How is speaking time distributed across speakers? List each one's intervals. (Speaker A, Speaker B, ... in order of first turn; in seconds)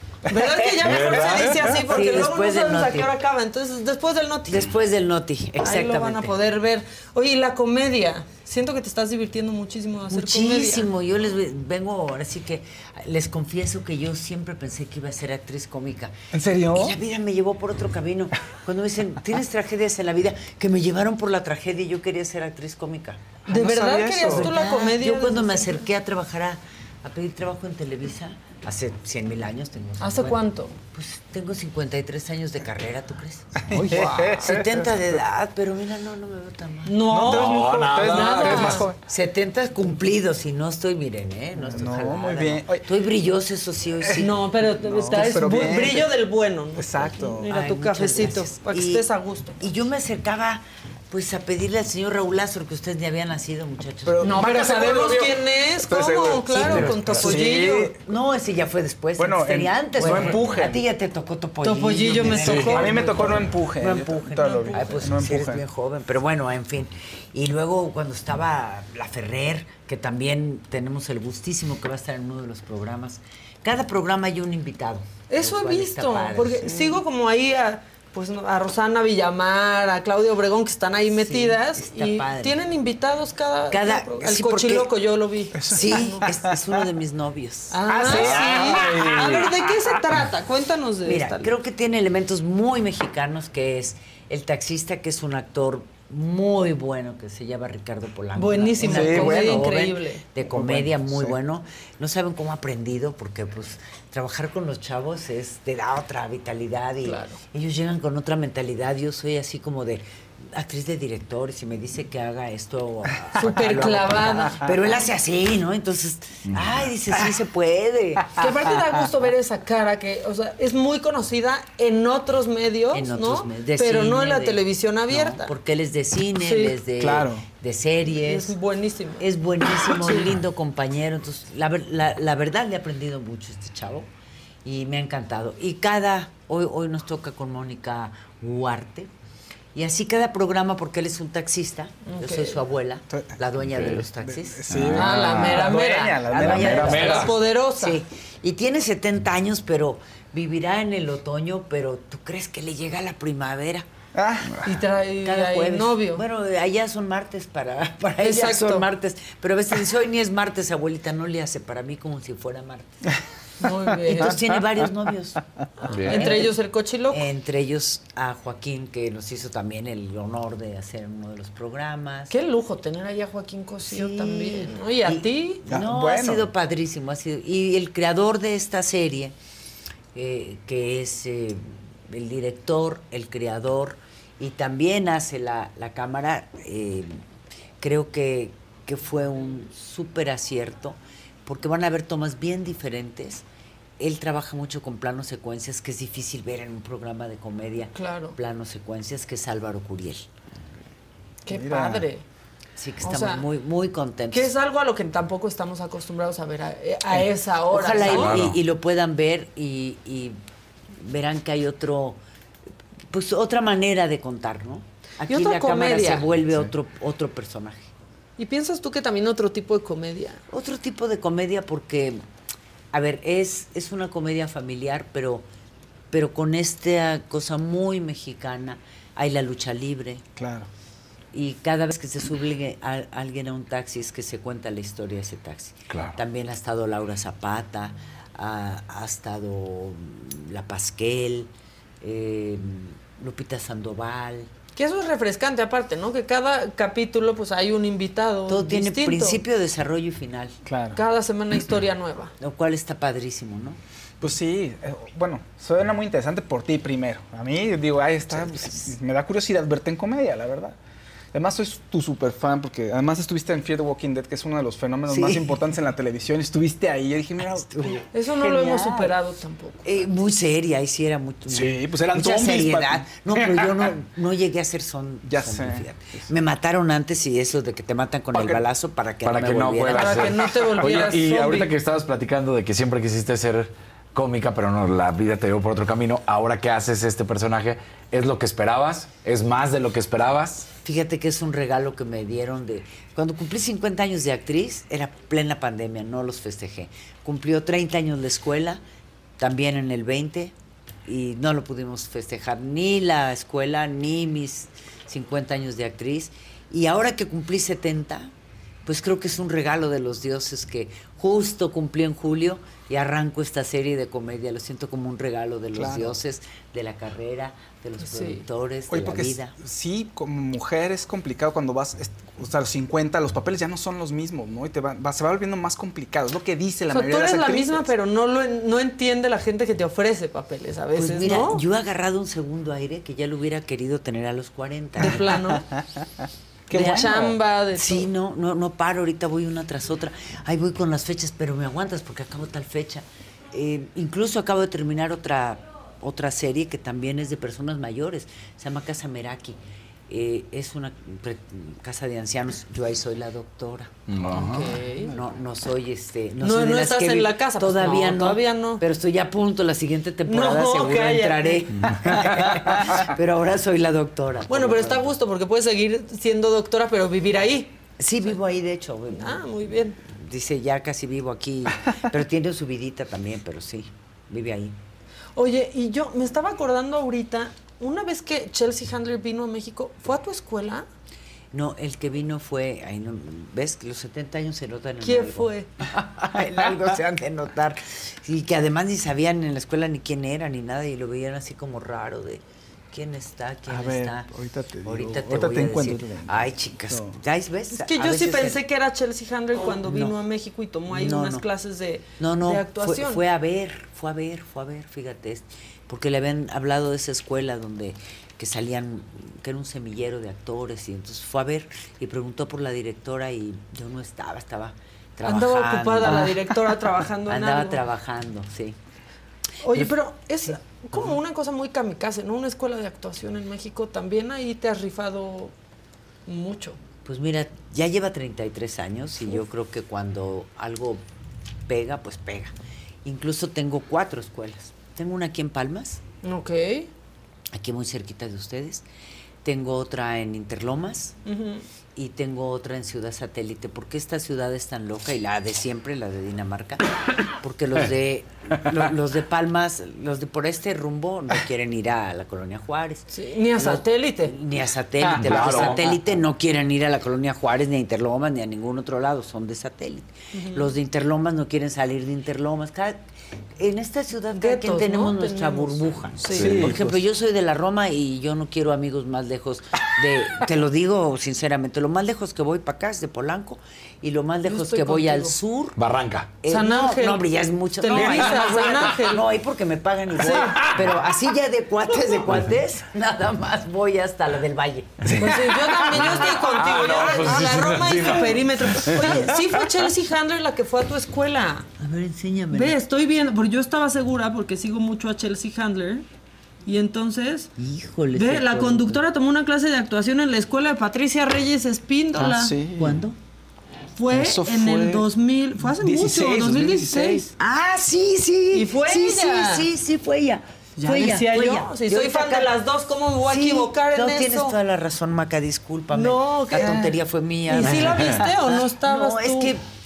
Speaker A: 0.3-4.7, 5.6-10.9, 23.5-25.8, 30.0-30.7, 33.9-34.4, 36.9-38.9, 44.2-49.6, 54.2-57.9, 61.6-63.4, 64.4-65.1, 75.3-86.3, 87.7-91.5, 98.3-100.2, 107.0-107.4, 113.4-114.7, 118.4-125.5, 126.4-126.7, 128.1-130.3, 142.1-142.6, 144.9-148.0, 154.6-156.2, 158.2-158.8, 163.6-164.4, 166.0-167.2, 172.3-175.6, 197.9-198.3, 201.4-202.2, 203.0-203.4, 204.3-208.4, 215.3-216.2, 218.4-220.4, 244.7-249.4, 250.9-252.3, 268.1-269.8, 279.9-281.7, 318.0-318.4, 326.9-331.6, 335.0-335.6, 336.7-338.1, 354.3-355.2, 356.4-358.8, 360.3-361.7, 364.5-367.7, 369.1-370.0, 375.4-380.9, 385.0-385.7, 397.7-403.2, 415.2-417.8, 419.6-425.5, 426.3-426.8, 436.2-436.9, 441.2-441.6, 453.1-454.3, 460.3-460.7, 464.3-466.7, 474.4-475.3, 476.5-477.3, 477.8-479.2, 480.2-480.6, 485.1-491.7, 492.5-496.0, 496.6-497.5, 498.1-502.5, 503.9-507.3, 508.5-509.7, 510.8-514.6, 515.9-516.9, 517.5-519.5
Speaker B: 0.8-1.8, 37.2-38.9, 56.6-57.3, 88.0-89.5, 116.5-116.8, 144.7-145.7, 146.3-147.3, 165.9-166.3, 208.0-208.6, 235.9-236.2, 278.3-278.6, 279.2-290.7, 354.1-354.6, 361.7-362.4, 455.0-456.0, 466.3-466.9, 475.8-476.4, 477.9-478.5, 480.3-480.9, 485.1-489.4, 517.7-518.1
Speaker C: 1.9-3.1, 4.5-6.4, 10.1-16.1, 16.7-23.4, 24.2-33.5, 34.4-37.1, 39.0-44.4, 45.1-45.7, 47.4-49.1, 49.6-54.5, 56.5-77.0, 81.1-82.6, 83.7-84.9, 85.7-88.4, 91.0-118.3, 122.9-128.5, 129.2-134.1, 134.6-139.1, 139.7-144.6, 146.3-153.8, 155.2-162.9, 164.1-165.4, 166.1-166.5, 167.1-172.3, 173.8-179.3, 180.1-187.2, 187.8-193.4, 194.0-200.2, 202.8-204.5, 207.7-210.4, 211.0-212.2, 213.1-217.9, 220.5-222.2, 222.9-225.4, 226.1-230.2, 231.3-241.5, 242.0-244.5, 248.5-250.6, 252.4-253.8, 258.3-258.9, 265.1-265.6, 267.6-269.1, 269.8-280.3, 290.8-298.8, 299.4-300.5, 301.0-308.3, 308.8-319.5, 330.9-335.3, 336.7-354.4, 355.1-365.1, 368.0-369.4, 370.0-374.8, 381.5-394.3, 394.8-398.6, 399.6-400.2, 400.9-401.4, 402.2-416.6, 417.2-418.8, 427.0-431.0, 431.7-432.5, 433.0-436.0, 437.5-438.8, 439.4-441.1, 441.9-446.8, 447.4-463.0, 463.6-475.8, 476.4-484.9, 491.8-492.8, 497.6-499.0, 502.6-503.1, 507.4-512.5, 513.2-519.6
Speaker D: 16.3-16.9, 23.5-24.5, 33.7-34.8, 37.1-39.0, 41.6-42.8, 44.8-46.1, 46.7-47.5, 54.0-58.0, 59.2-60.8, 62.6-65.6, 85.5-86.4, 98.8-99.7, 100.4-101.3, 127.0-127.4, 143.1-147.0, 154.1-154.5, 175.7-176.5, 201.5-202.1, 230.4-230.7, 250.7-251.0, 254.2-260.8, 261.3-267.9, 271.5-273.8, 275.2-276.3, 315.8-316.1, 318.9-327.9, 335.5-335.8, 336.7-337.3, 393.7-397.2, 466.4-466.9, 502.2-503.0, 504.1-505.0, 505.7-507.2